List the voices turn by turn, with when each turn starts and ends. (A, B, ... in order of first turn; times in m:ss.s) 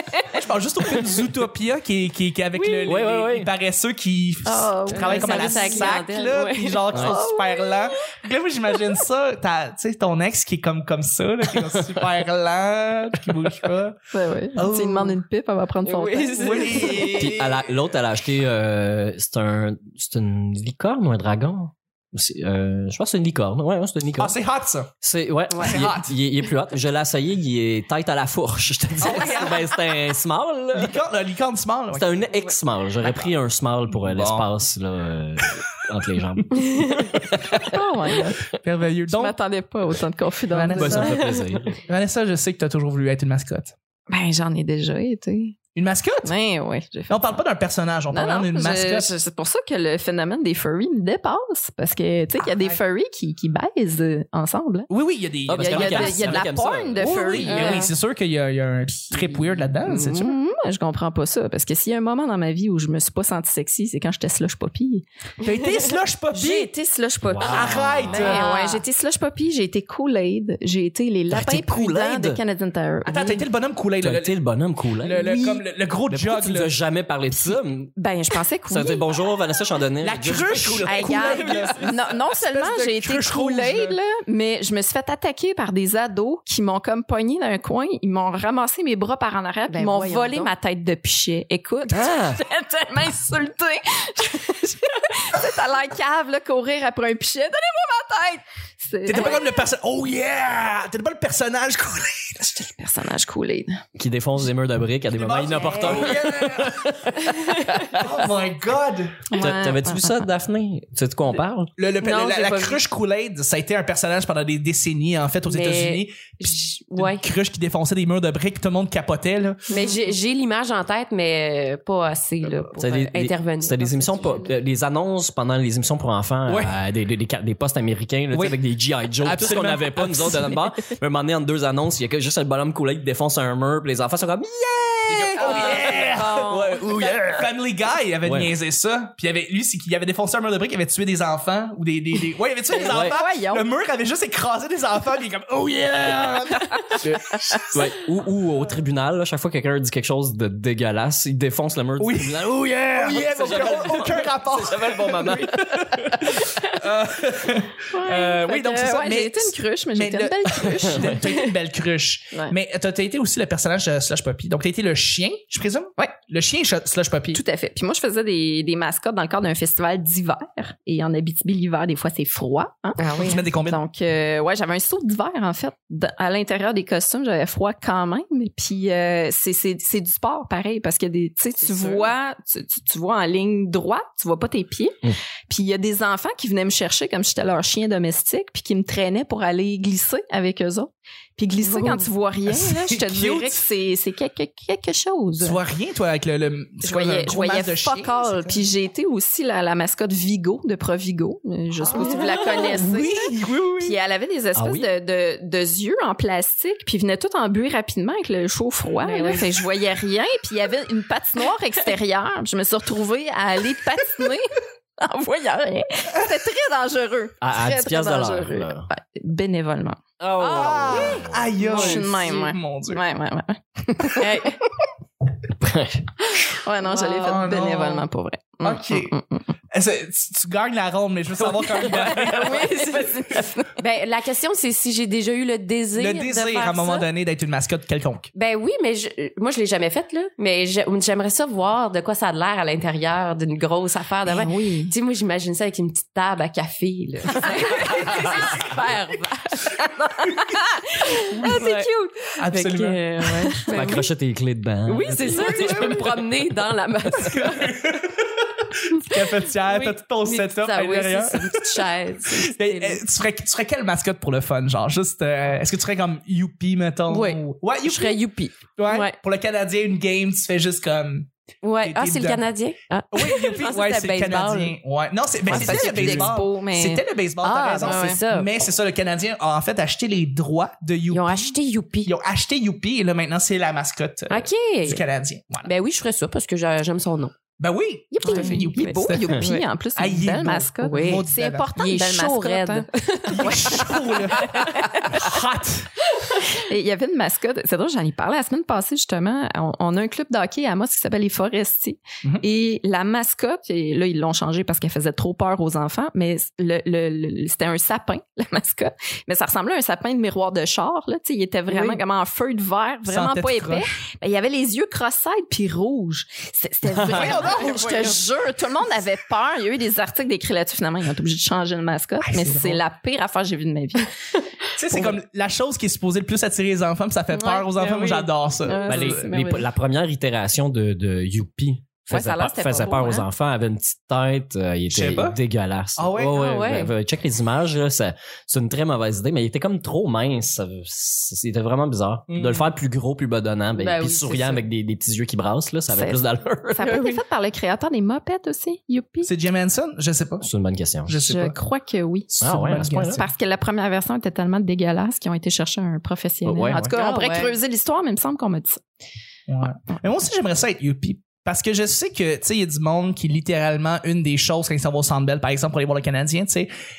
0:00.3-0:14.0 A
0:02.6-0:02.9 B
0:02.8-0:03.5 C
0:04.4-0:06.0 D
0:04.9-0:07.0 B
0:06.9-0:07.2 C
0:07.0-0:07.9 D
0:11.7-0:12.0 C
0:14.1-0:17.0 D
0:14.5-0:15.2 A
0:15.8-0:17.4 B
0:16.3-0:17.7 A
0:17.0-0:24.3 C
0:24.2-0:24.9 A
0:25.0-0:31.0 C
0:25.5-0:25.8 B
0:25.6-0:26.1 A
0:29.0-0:29.6 A
0:30.7-0:32.2 A
0:31.9-0:37.7 C
0:33.9-0:34.5 A
0:37.4-0:37.7 A
0:37.6-0:38.4 D
0:38.6-0:39.4 A
0:39.1-0:41.1 D
0:40.5-0:43.7 A
0:40.7-0:41.8 C
0:41.0-0:41.4 B
0:44.1-0:45.6 D
0:45.7-0:46.3 A
0:46.2-0:47.4 D
0:47.1-0:49.1 A
0:48.1-0:54.9 D
0:54.9-1:00.3 A
0:55.5-0:57.3 C
0:55.5-0:57.9 D
0:57.4-0:57.9 B
0:59.8-1:05.0 D
1:05.4-1:06.7 A
1:06.3-1:13.4 D
1:07.2-1:08.3 C
1:07.4-1:08.4 A
1:08.1-1:08.8 B
1:11.3-1:12.4 C
1:13.0-1:14.3 A
1:14.0-1:15.5 C
1:15.0-1:16.7 A
1:15.2-1:15.6 D
1:16.1-1:17.9 C
1:17.4-1:19.0 D
1:18.7-1:21.3 C
1:20.0-1:24.0 A
1:20.8-1:39.6 D
1:21.2-1:21.9 B
1:29.7-1:30.5 B
1:31.9-1:32.4 C
1:39.0-1:42.6 A
1:42.4-1:43.8 D
1:44.0-1:48.2 C
1:45.1-1:47.1 A
1:45.5-1:46.2 B
1:47.4-1:47.8 B
1:47.9-1:49.3 A
1:49.3-1:50.1 D
1:49.4-1:51.7 C
1:51.8-1:59.7 A
1:52.0-1:52.8 B
1:55.4-1:57.2 B
1:59.7-2:00.0 D
1:59.7-2:04.5 B
2:02.8-2:17.5 C
2:06.5-2:06.8 A
2:08.3-2:08.6 A
2:09.2-2:10.6 A
2:15.1-2:16.5 A
2:15.4-2:16.9 B
2:17.3-2:27.8 A
2:18.2-2:18.5 C
2:22.7-2:23.6 D
2:22.8-2:23.1 C
2:27.0-2:36.6 C
2:32.0-2:47.4 A
2:37.9-2:41.4 D
2:47.3-3:15.6 D
2:53.0-2:53.4 B
2:53.2-2:53.8 A
3:01.6-3:02.1 B
3:11.7-3:12.0 B
3:12.5-3:13.6 A
3:15.4-3:18.6 A
3:16.8-3:23.3 D
3:21.9-3:22.8 B
3:21.9-3:24.0 A
3:23.8-3:40.0 D
3:24.6-3:24.9 C
3:29.0-3:29.5 B
3:37.4-3:38.9 C
3:40.2-3:41.5 C
3:40.4-3:42.1 B
3:40.5-3:43.0 A
3:40.9-3:44.7 D
3:44.2-3:44.6 B
3:45.6-3:46.3 C
3:46.5-3:49.4 D
3:46.8-3:47.4 B
3:47.2-3:48.1 A
3:48.6-3:49.2 A
3:49.7-3:53.0 A
3:51.7-3:53.8 D
3:51.9-3:53.0 B
3:53.8-3:57.1 B
3:56.0-3:58.3 A
3:58.3-4:10.4 B
4:04.2-4:04.9 D
4:10.4-4:12.4 D
4:11.1-4:11.9 B
4:11.3-4:11.6 A
4:12.4-4:13.0 A
4:12.5-4:14.0 B
4:13.4-4:13.7 D
4:13.7-4:15.8 C
4:14.9-4:17.8 B
4:15.3-4:16.2 A
4:17.1-4:18.3 A
4:18.9-4:28.2 A
4:19.6-4:23.0 B
4:27.1-4:29.2 B
4:28.8-4:31.3 A
4:31.6-4:34.8 B
4:31.8-4:32.4 A
4:33.1-4:45.7 A
4:35.5-4:37.0 D
4:35.5-4:36.2 C
4:35.5-4:36.2 B
4:37.4-4:38.5 B
4:37.8-4:38.2 D
4:41.1-4:42.1 B
4:44.3-4:45.0 B
4:45.6-4:47.3 B
4:47.6-4:49.3 A
4:48.1-4:55.4 D
4:48.2-4:49.6 B
4:50.0-4:51.7 A
4:50.8-4:51.2 B
4:51.8-4:55.2 B
4:53.3-4:56.0 A
4:56.4-5:24.1 D
5:11.7-5:12.0 B
5:13.1-5:13.9 A
5:16.9-5:17.4 C
5:17.0-5:18.2 A
5:17.4-5:18.1 B
5:22.2-5:22.8 A
5:24.7-5:29.3 A
5:27.3-5:27.7 D
5:27.7-5:28.3 B
5:28.6-5:29.7 D
5:28.9-5:46.9 C
5:32.1-5:33.3 D
5:34.9-5:35.4 A
5:36.0-5:36.4 A
5:36.3-5:36.9 B
5:42.3-5:42.7 A
5:43.8-5:44.6 B
5:45.9-5:46.2 D
5:46.7-5:49.3 D
5:46.8-5:47.2 B
5:49.2-5:50.5 A
5:50.4-5:51.2 C
5:51.0-5:51.6 A
5:51.2-5:58.8 D
5:52.4-5:53.2 C
5:52.4-5:53.3 A
5:56.4-5:57.0 C
5:56.9-5:57.5 B
5:59.5-6:06.7 A